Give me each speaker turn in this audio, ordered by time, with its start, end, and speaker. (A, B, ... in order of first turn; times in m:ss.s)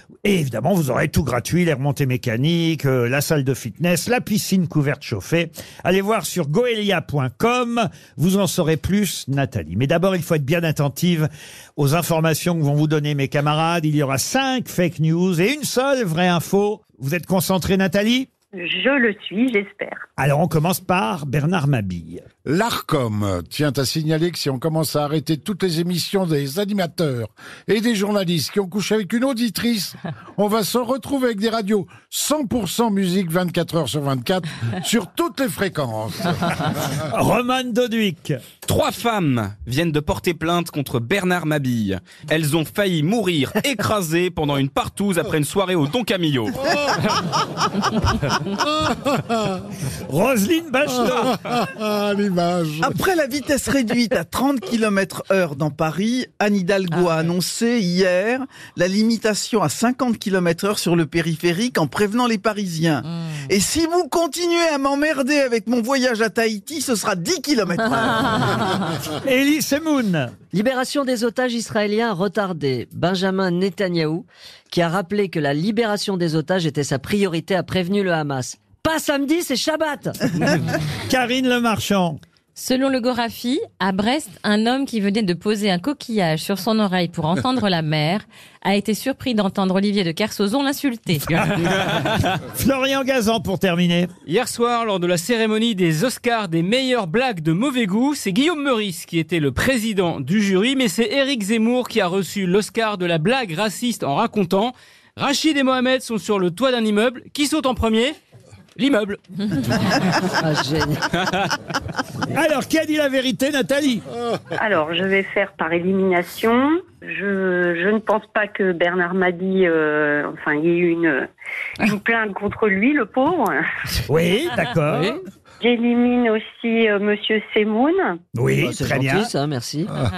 0:00.2-0:18.3 A
0:18.5-0:20.1 B
0:20.2-0:22.2 A
0:22.5-0:36.4 C
0:37.1-0:38.4 A
0:38.7-0:46.6 D
0:50.1-0:51.4 A
0:51.1-0:52.9 C
0:52.8-1:08.7 E
0:56.9-0:57.3 F
1:07.9-1:08.7 F
1:09.2-1:10.3 A
1:10.5-1:20.2 G
1:21.1-1:22.2 A
1:22.6-1:31.4 F
1:31.3-1:31.9 H
1:32.4-1:34.1 A
1:34.3-1:48.2 H
1:48.8-1:49.2 H
1:50.4-1:51.0 G
1:52.3-1:54.0 A
1:54.6-2:01.3 B
2:01.8-2:03.6 B
2:04.1-2:05.2 A
2:04.9-2:05.2 H
2:05.6-2:08.2 B
2:08.4-2:09.3 A
2:08.6-2:09.9 G